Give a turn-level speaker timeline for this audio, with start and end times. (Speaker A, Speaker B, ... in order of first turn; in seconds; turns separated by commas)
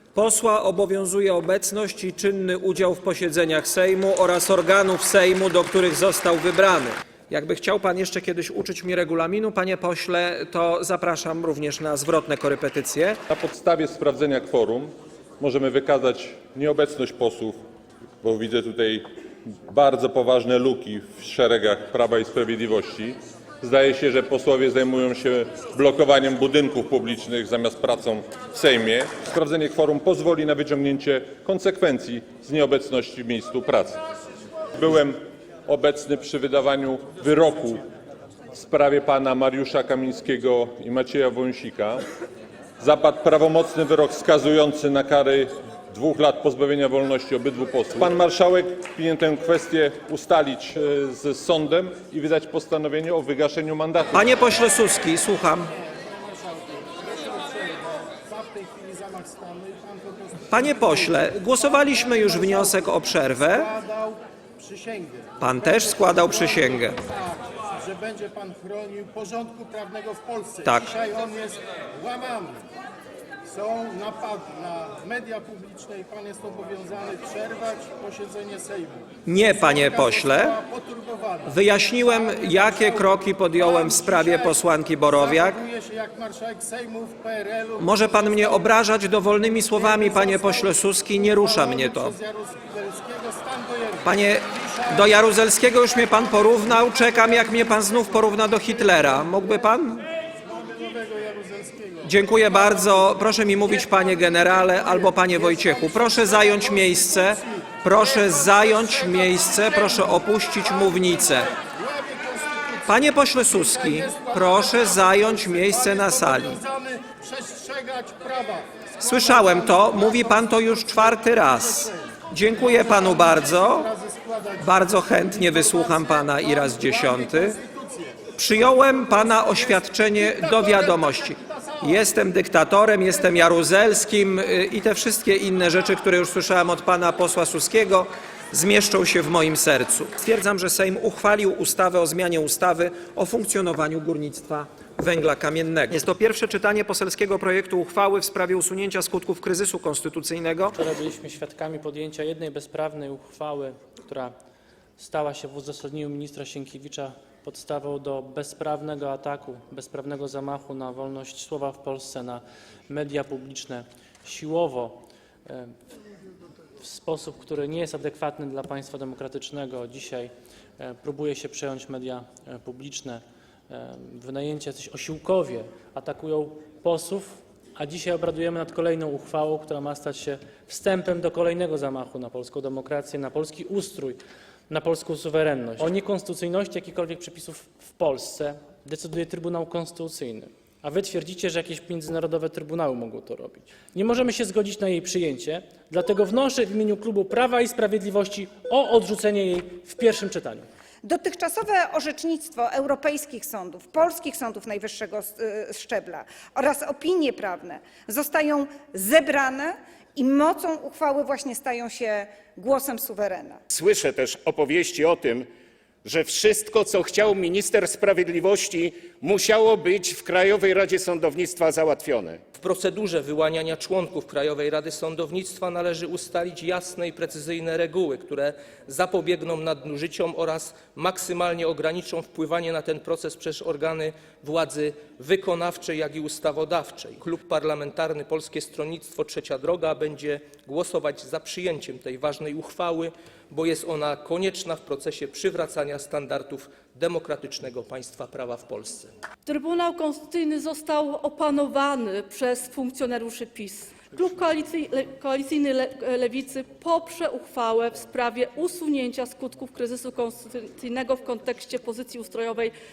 Speaker A: 0.1-13.2, Speaker B: 13.3-17.6, Speaker B: 18.2-19.1, Speaker B: 19.7-34.0, Speaker B: 34.8-37.8, Speaker B: 38.5-42.0, Speaker B: 42.8-54.4, Speaker A: 54.1-55.7, Speaker C: 55.8-72.6, Speaker A: 60.5-63.7, Speaker A: 65.4-67.0, Speaker A: 70.7-70.9, Speaker C: 73.5-88.8, Speaker A: 79.3-80.6, Speaker A: 81.5-85.6, Speaker A: 87.8-92.2, Speaker C: 89.7-95.2, Speaker A: 94.0-100.0, Speaker C: 96.6-98.1, Speaker C: 100.4-128.2, Speaker A: 102.0-111.5, Speaker A: 112.9-116.6, Speaker A: 119.0-123.9, Speaker A: 124.6-127.6, Speaker A: 128.4-150.8, Speaker C: 129.0-132.1, Speaker D: 150.8-154.3, Speaker D: 155.0-165.8, Speaker D: 166.8-200.7, Speaker E: 201.0-213.6, Speaker F: 213.7-215.5, Speaker F: 216.0-222.4, Speaker G: 222.6-249.1, Speaker H: 249.5-262.7